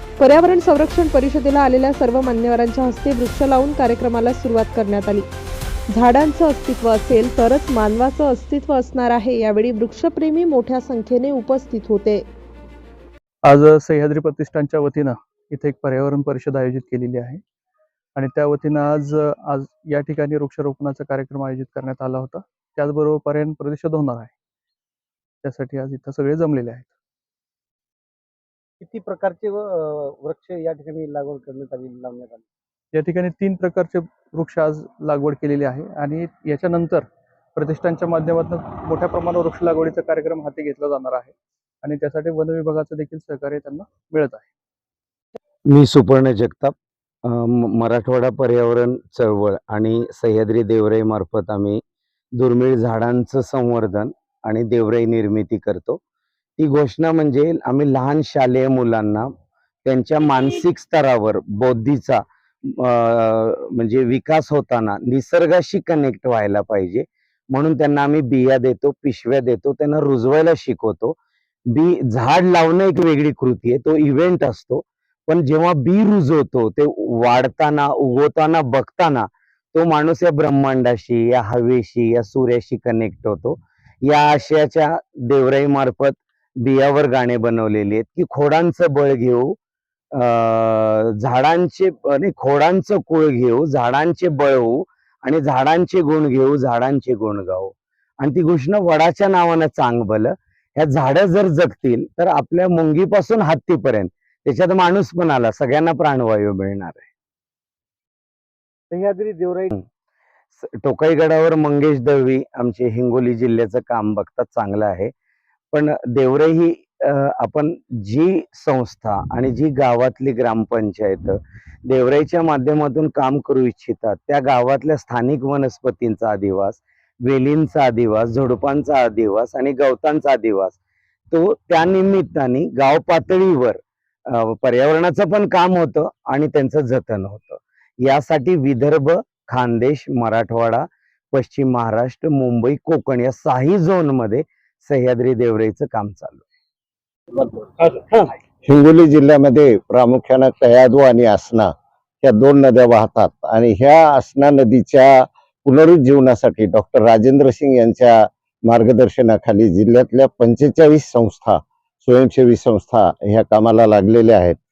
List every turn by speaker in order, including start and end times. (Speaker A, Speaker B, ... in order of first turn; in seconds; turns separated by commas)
Speaker A: 0.2-5.3, Speaker A: 5.9-12.3, Speaker B: 13.4-17.4, Speaker B: 18.1-24.3, Speaker B: 25.4-26.9, Speaker C: 28.8-32.5, Speaker B: 32.9-44.5, Speaker D: 45.7-46.8, Speaker D: 47.3-51.8, Speaker D: 52.4-56.0, Speaker D: 56.6-59.3, Speaker D: 59.9-71.2, Speaker D: 71.7-89.6, Speaker D: 90.2-107.1, Speaker C: 108.9-109.7, Speaker D: 110.5-115.1, Speaker D: 115.7-130.8, Speaker D: 131.3-146.4, Speaker E: 148.6-151.7, Speaker E: 152.2-164.6